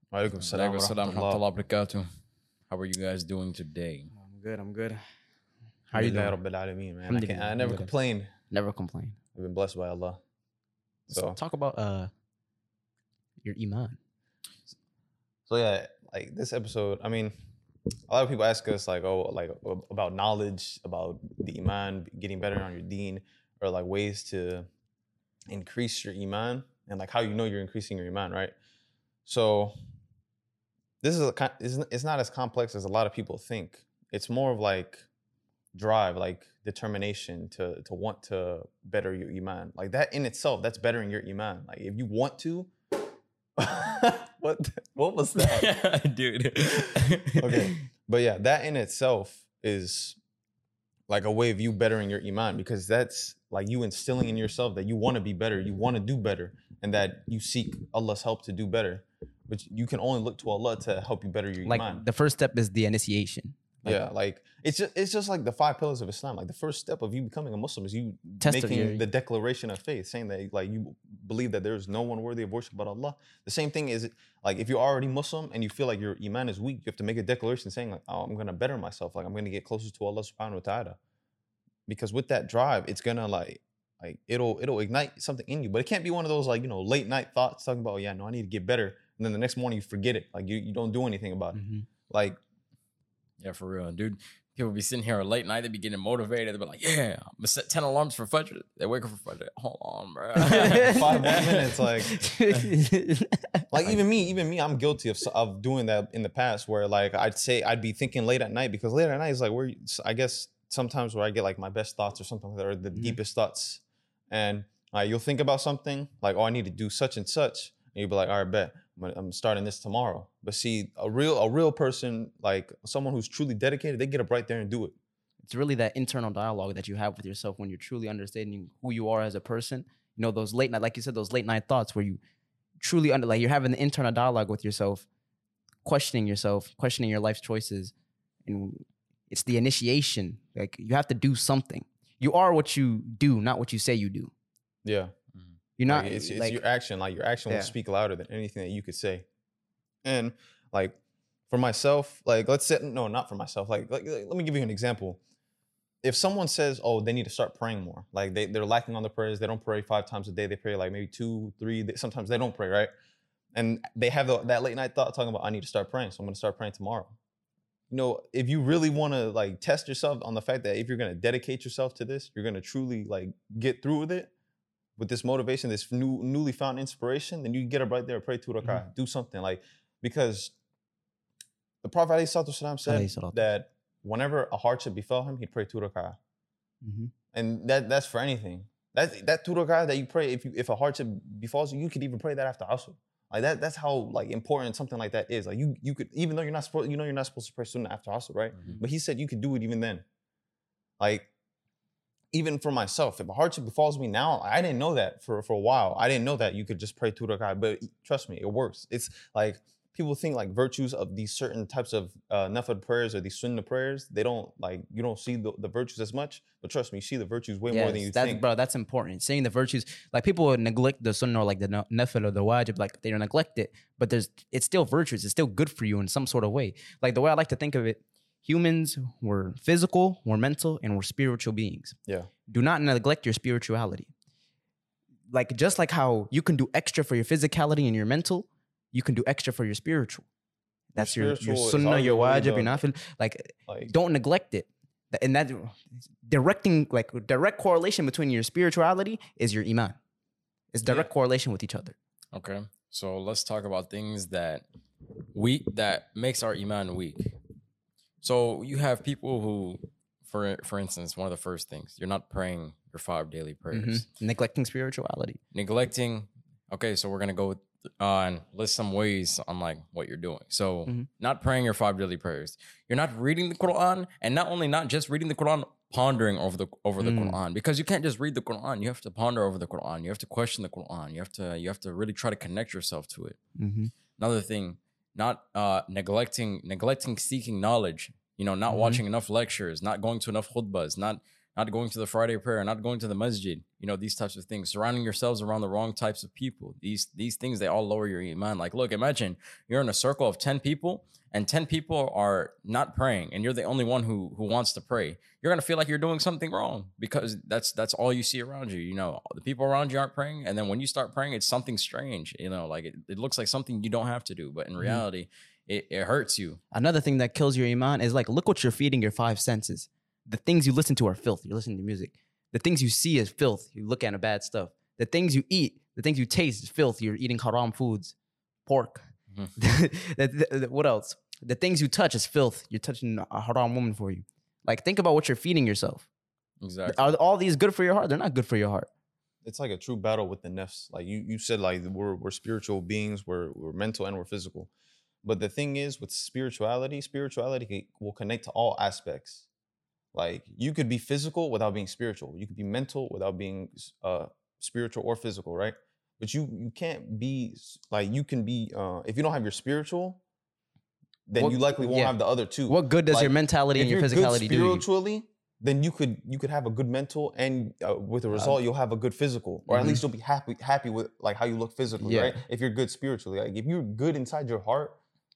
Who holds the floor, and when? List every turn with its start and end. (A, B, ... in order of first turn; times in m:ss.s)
0:00.1-0:01.4 A
0:00.4-0:02.1 B
0:02.7-0:04.1 B
0:04.1-0:05.0 C
0:05.9-0:06.4 C
0:05.9-0:08.3 A
0:07.1-0:07.9 C
0:08.5-0:09.2 C
0:09.3-0:10.2 A
0:11.1-0:11.4 A
0:11.1-0:12.1 C
0:13.4-0:14.0 C
0:15.5-0:17.3 A
0:18.1-0:24.7 A
0:25.5-0:28.5 A
0:29.2-0:29.7 A
0:31.0-0:35.0 A
0:35.7-0:42.7 A
0:43.6-0:45.7 A
0:45.4-0:47.7 B
0:46.9-0:50.2 A
0:51.1-1:02.0 A
1:01.6-1:04.0 C
1:03.8-1:21.0 A
1:08.4-1:09.0 C
1:21.9-1:32.4 A
1:31.5-1:31.9 C
1:33.4-1:41.7 B
1:40.4-1:43.6 C
1:40.8-1:42.1 A
1:43.7-2:04.9 A
2:05.4-2:12.2 C
2:12.8-2:15.0 C
2:15.8-2:17.9 C
2:18.4-2:24.3 C
2:24.8-2:25.1 A
2:25.8-2:26.6 C
2:25.9-2:29.2 A
2:30.0-2:31.0 A
2:31.5-2:35.2 A
2:36.0-2:42.9 A
2:43.5-2:47.2 A
2:47.9-2:54.3 A
2:55.0-3:00.5 A
3:01.8-3:06.2 A
3:02.8-3:03.4 C
3:06.8-3:07.1 C
3:07.3-3:20.0 A
3:21.0-3:21.3 A
3:22.3-3:38.4 A
3:37.7-3:51.9 C
3:52.5-3:54.1 C
3:55.3-4:00.2 C
4:00.9-4:10.0 C
4:01.0-4:02.8 A
4:03.7-4:03.9 A
4:10.7-4:11.9 C
4:12.3-4:14.6 B
4:15.3-4:17.3 B
4:18.2-4:24.0 B
4:23.7-4:25.4 C
4:25.5-4:43.4 B
4:37.0-4:37.4 C
4:43.6-4:43.9 C
4:44.2-5:16.6 B
4:48.7-4:49.0 C
5:16.7-5:28.1 C
5:28.6-5:36.1 C
5:36.6-5:37.1 B
5:36.8-5:38.9 C
5:39.4-5:44.7 A
5:45.2-5:49.5 A
5:50.1-6:00.2 A
6:01.3-6:15.0 A
6:01.4-6:02.1 C
6:02.7-6:04.8 C
6:09.7-6:10.0 C
6:12.0-6:12.4 C